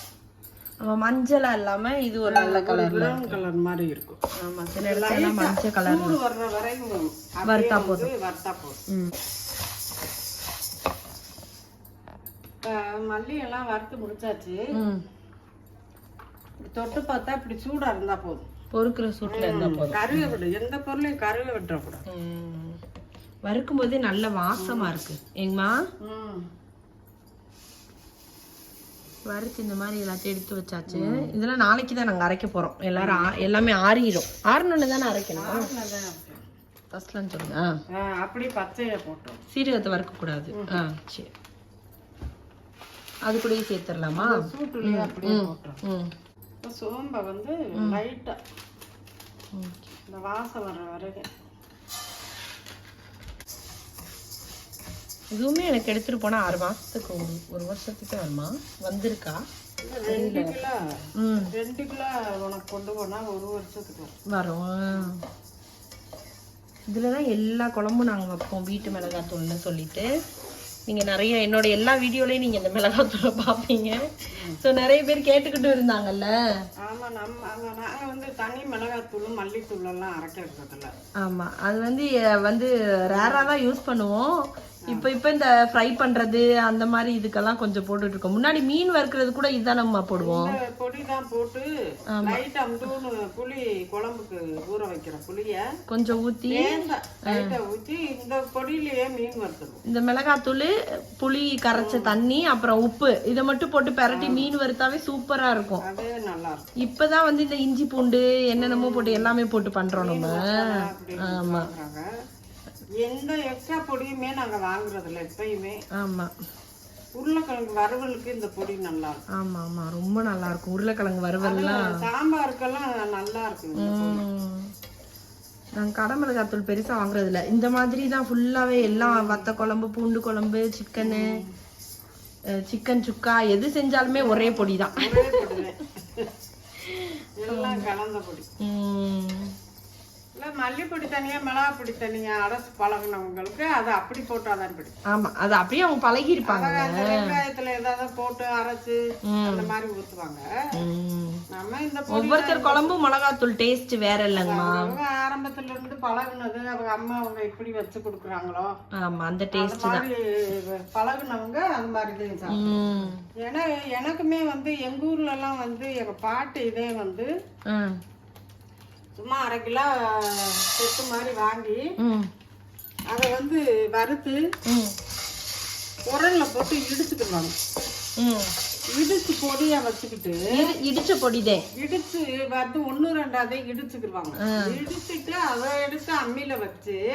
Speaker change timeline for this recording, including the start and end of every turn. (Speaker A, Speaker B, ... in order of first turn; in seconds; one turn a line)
Speaker A: 0.8-3.4
Speaker B: 2.3-4.2
Speaker A: 4.4-6.2
Speaker B: 4.8-8.8
Speaker A: 7.5-8.1
Speaker B: 12.6-14.7
Speaker A: 14.7-15.0
Speaker B: 16.7-18.5
Speaker A: 18.7-20.3
Speaker B: 19.3-22.0
Speaker A: 22.1-22.8
Speaker A: 23.4-25.8
Speaker B: 24.6-24.9
Speaker B: 26.0-26.5
Speaker A: 29.3-35.7
Speaker B: 30.9-31.3
Speaker B: 33.0-33.3
Speaker B: 35.4-36.4
Speaker A: 36.9-37.8
Speaker B: 37.9-39.4
Speaker A: 39.5-41.3
Speaker B: 40.5-40.8
Speaker A: 43.2-46.1
Speaker B: 44.2-45.8
Speaker B: 46.6-48.4
Speaker A: 49.5-49.9
Speaker B: 50.1-51.3
Speaker A: 55.3-59.4
Speaker B: 59.8-64.2
Speaker A: 60.1-60.6
Speaker A: 61.2-61.5
Speaker A: 64.3-65.2
Speaker A: 66.9-70.1
Speaker A: 70.9-76.4
Speaker B: 76.8-80.9
Speaker A: 81.2-90.5
Speaker B: 83.1-83.5
Speaker B: 90.2-95.7
Speaker A: 92.1-92.4
Speaker A: 95.9-97.6
Speaker B: 96.5-99.8
Speaker A: 99.9-105.8
Speaker B: 101.8-102.2
Speaker B: 104.1-104.5
Speaker B: 105.8-106.7
Speaker A: 106.8-111.7
Speaker B: 108.6-109.3
Speaker B: 110.0-112.0
Speaker B: 113.0-115.8
Speaker A: 116.0-116.3
Speaker B: 117.2-119.2
Speaker A: 119.3-121.9
Speaker B: 121.4-124.2
Speaker A: 123.8-124.7
Speaker A: 125.8-131.4
Speaker B: 128.8-129.5
Speaker B: 131.0-131.5
Speaker A: 132.5-135.6
Speaker B: 134.2-136.3
Speaker A: 136.8-137.9
Speaker B: 137.4-138.5
Speaker A: 138.6-139.5
Speaker B: 140.4-145.0
Speaker A: 145.1-147.4
Speaker B: 146.5-150.4
Speaker A: 149.3-149.7
Speaker A: 150.7-151.4
Speaker B: 151.5-153.0
Speaker A: 152.1-154.9
Speaker B: 154.3-158.7
Speaker A: 159.0-160.1
Speaker B: 159.5-162.8
Speaker A: 162.5-163.2
Speaker B: 163.4-167.3
Speaker A: 167.7-168.0
Speaker B: 169.2-171.8
Speaker A: 172.0-172.3
Speaker B: 173.1-174.4
Speaker A: 174.7-175.0
Speaker B: 176.1-177.6
Speaker A: 178.2-178.5
Speaker B: 178.9-180.8
Speaker A: 180.5-181.7
Speaker B: 181.8-187.0
Speaker A: 184.4-184.8